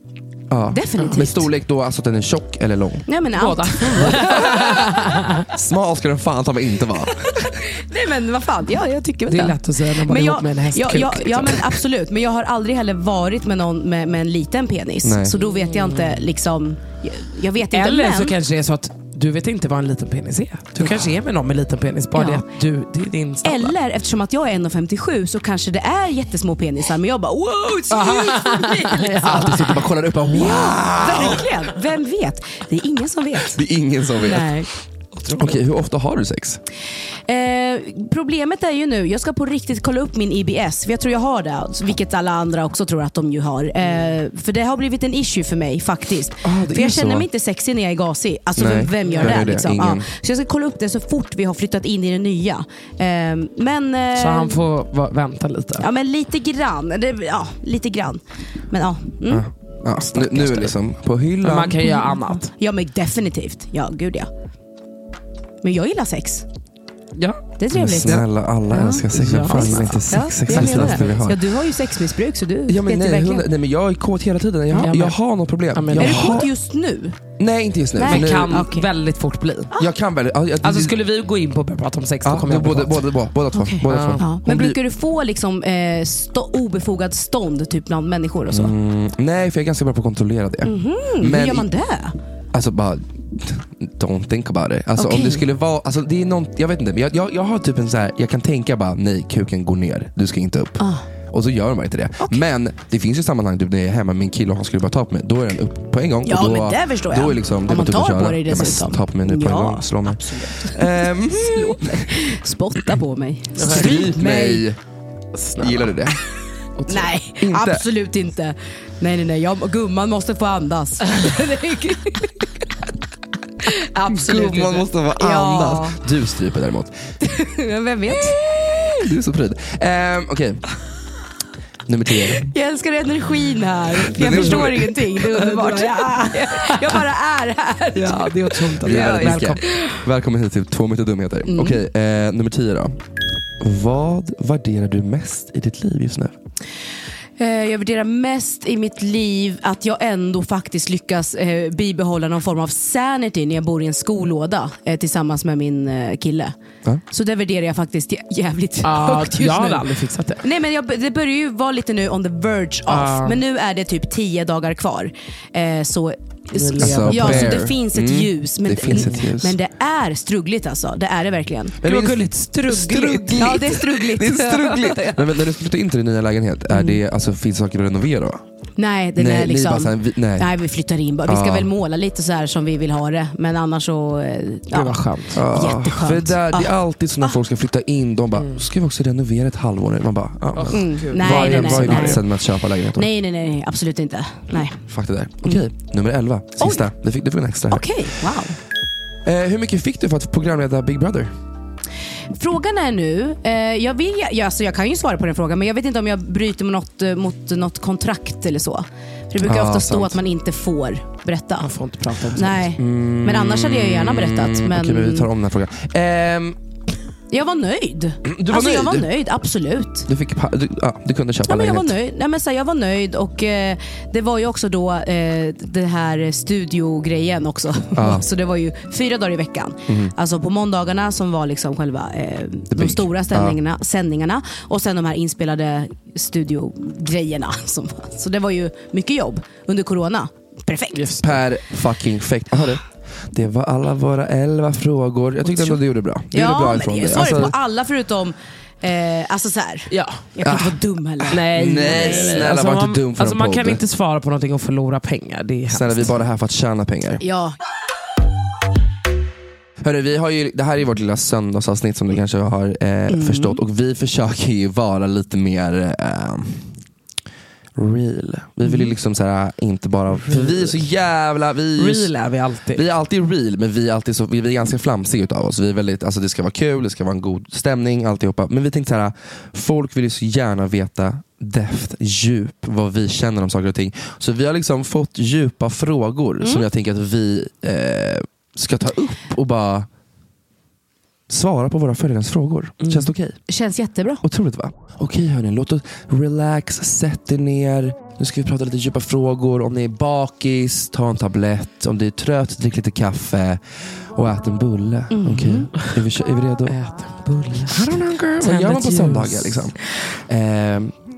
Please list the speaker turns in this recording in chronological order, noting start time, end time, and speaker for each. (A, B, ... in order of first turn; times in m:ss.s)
0:00.5-0:03.1 A
0:00.7-0:01.5 B
0:03.1-0:04.9 B
0:03.4-0:05.4 C
0:04.0-0:04.3 A
0:05.5-0:07.5 A
0:07.4-0:18.3 B
0:09.3-0:11.7 C
0:15.0-0:15.3 A
0:15.4-0:16.3 C
0:17.7-0:23.7 C
0:20.8-0:21.1 A
0:22.1-0:22.4 B
0:23.4-0:29.6 B
0:27.9-0:29.8 C
0:29.2-0:31.5 A
0:30.3-0:33.6 B
0:33.5-0:34.5 A
0:34.2-0:34.7 B
0:35.2-0:35.6 C
0:35.3-0:36.6 A
0:37.3-0:54.6 B
0:46.4-0:47.3 A
0:48.6-0:50.0 A
0:49.0-0:49.4 C
0:54.2-0:55.8 C
0:55.8-0:59.4 B
0:59.3-1:01.9 A
1:00.1-1:00.4 B
1:01.4-1:02.5 C
1:01.8-1:04.3 B
1:05.6-1:06.4 B
1:07.2-1:07.4 C
1:07.6-1:13.4 B
1:07.7-1:11.4 A
1:09.1-1:11.2 C
1:12.7-1:16.5 A
1:14.8-1:15.2 C
1:15.7-1:16.4 C
1:16.0-1:17.2 B
1:17.4-1:18.7 A
1:18.0-1:18.9 B
1:18.0-1:19.7 C
1:19.8-1:20.9 A
1:20.6-1:23.0 C
1:22.2-1:24.8 A
1:23.5-1:28.7 B
1:23.9-1:24.2 C
1:28.5-1:31.7 A
1:30.6-1:32.1 B
1:32.5-1:52.1 A
1:35.0-1:35.4 B
1:40.8-1:41.1 B
1:46.2-1:54.4 B
1:53.6-1:54.5 C
1:53.6-1:54.8 A
1:55.3-1:56.0 C
1:55.6-1:56.2 A
1:56.8-1:57.1 C
1:56.9-2:02.4 B
1:57.4-1:57.8 A
2:03.6-2:06.0 B
2:04.1-2:06.9 A
2:07.2-2:08.4 B
2:08.3-2:10.6 A
2:11.9-2:12.5 A
2:12.4-2:20.0 B
2:14.0-2:15.0 A
2:14.2-2:17.0 C
2:17.9-2:19.8 C
2:18.8-2:23.0 A
2:21.5-2:21.8 B
2:23.6-2:26.4 A
2:27.4-2:36.5 B
2:37.1-2:39.9 B
2:38.8-2:40.4 C
2:40.4-2:51.8 B
2:42.9-2:43.4 C
2:46.5-2:47.6 C
2:46.8-2:49.6 A
2:48.9-2:49.2 C
2:51.8-2:58.4 A
2:51.8-2:53.6 C
2:53.4-2:55.2 B
2:56.7-2:57.0 B
2:58.8-3:07.4 B
2:59.2-3:00.5 A
3:01.2-3:01.7 A
3:04.7-3:05.4 C
3:05.3-3:13.1 A
3:08.4-3:08.6 C
3:10.5-3:12.2 C
3:10.7-3:12.2 B
3:12.9-3:14.8 B
3:14.9-3:18.0 A
3:16.6-3:16.9 B
3:17.7-3:18.6 B
3:19.2-3:21.3 A
3:22.3-3:31.7 B
3:29.4-3:30.2 A
3:31.6-3:32.7 C
3:32.3-3:35.3 B
3:32.8-3:36.6 A
3:37.3-3:40.1 B
3:38.2-3:39.1 A
3:40.1-3:42.0 A
3:41.4-4:01.1 B
3:47.9-3:48.2 A
3:49.9-3:50.1 A
3:52.7-3:53.6 A
4:00.9-4:01.3 C
4:01.2-4:07.5 A
4:06.3-4:12.3 B
4:09.9-4:10.2 C
4:10.4-4:10.8 A
4:11.3-4:16.1 C
4:11.3-4:13.8 A
4:15.7-4:17.2 A
4:17.2-4:17.6 B
4:19.8-4:26.7 A
4:23.1-4:23.6 B
4:27.7-4:32.1 A
4:30.2-4:30.8 C
4:31.8-4:32.8 C
4:32.7-4:49.9 A
4:51.3-4:53.4 A
4:52.8-4:53.1 C
4:53.5-4:54.2 B
4:54.2-5:03.6 A
5:04.1-5:06.8 A
5:05.1-5:05.7 B
5:06.7-5:09.7 C
5:07.7-5:10.9 A